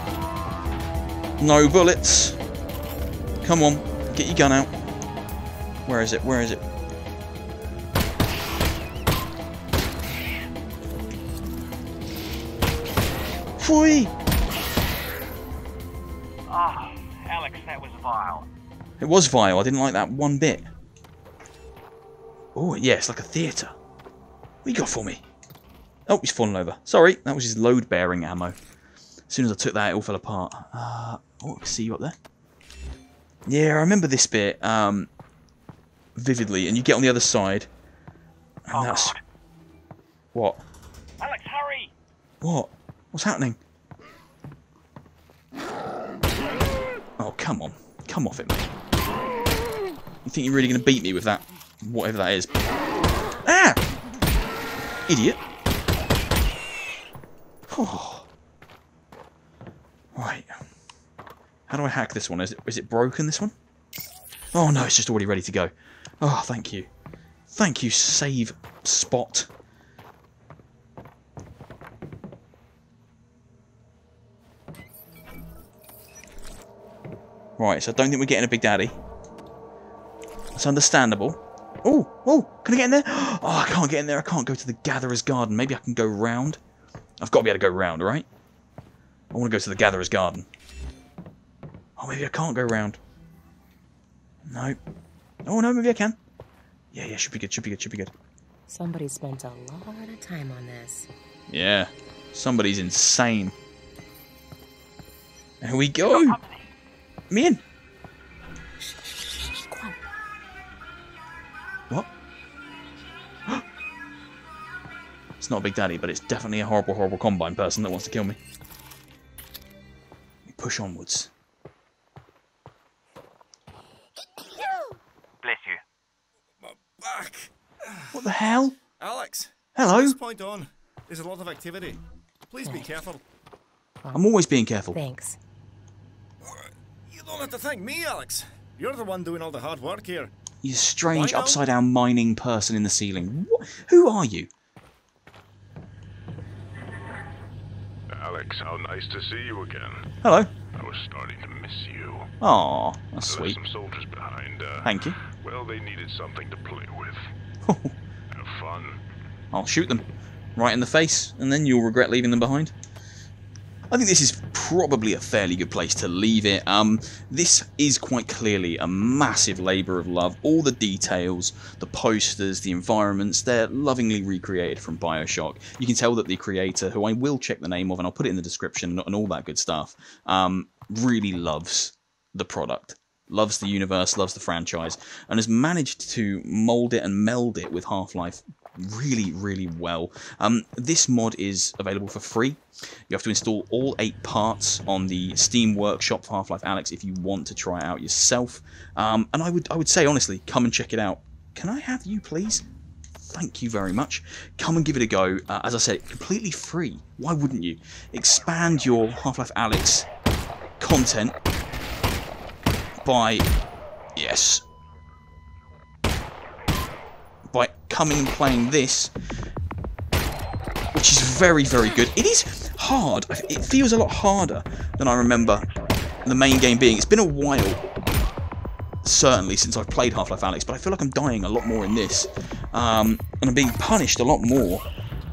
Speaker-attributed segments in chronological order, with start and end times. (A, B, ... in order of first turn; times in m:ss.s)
0:01.4-0:02.4 A
0:03.4-0:04.7 A
0:05.8-0:06.6 A
0:13.6-0:14.1 A
0:16.5-0:18.5 B
0:19.0-0:20.7 A
0:22.5-0:23.7 A
0:24.6-0:25.2 A
0:26.1-0:28.6 A
0:29.3-0:32.2 A
0:33.5-0:35.1 A
0:36.2-0:37.7 A
0:38.6-0:39.2 A
0:38.7-0:39.2 B
0:40.3-0:40.6 A
0:41.2-0:41.9 B
0:42.4-0:43.6 A
0:47.2-0:48.7 A
0:50.2-0:52.5 A
0:53.4-0:53.8 A
0:55.1-0:55.4 A
0:57.7-0:58.3 A
1:00.1-1:00.5 A
1:01.7-1:03.5 A
1:04.5-1:06.9 A
1:07.5-1:09.5 A
1:17.6-1:19.0 A
1:20.5-1:26.6 A
1:27.2-1:28.2 A
1:29.3-1:30.5 A
1:32.0-1:33.0 A
1:34.4-1:34.8 A
1:35.4-1:36.2 A
1:36.9-1:38.1 A
1:38.7-1:41.1 C
1:41.5-1:43.5 A
1:45.6-1:46.4 A
1:46.1-1:46.5 B
1:47.3-1:47.6 A
1:49.5-1:50.0 C
1:55.4-1:58.4 A
2:00.5-2:01.3 A
2:05.4-2:05.8 B
2:06.6-2:08.2 D
2:08.1-2:08.8 A
2:09.0-2:13.2 D
2:09.8-2:10.2 A
2:12.6-2:12.9 C
2:14.1-2:15.0 A
2:14.9-2:15.4 C
2:16.4-2:20.3 D
2:20.6-2:24.5 A
2:21.1-2:21.6 D
2:28.1-2:30.1 E
2:30.2-2:30.5 A
2:30.7-2:32.3 E
2:32.4-2:33.6 A
2:33.3-2:37.3 E
2:34.8-2:35.2 A
2:37.6-2:37.9 A
2:38.3-2:39.0 E
2:39.5-2:42.7 A
2:43.9-3:22.6 A
3:23.2-3:30.1 A
3:30.8-3:31.4 A
3:33.0-3:33.5 A
3:34.2-3:34.6 A
3:37.5-3:39.1 A
3:40.9-3:45.6 A
3:46.2-3:47.8 A
3:49.0-3:54.8 A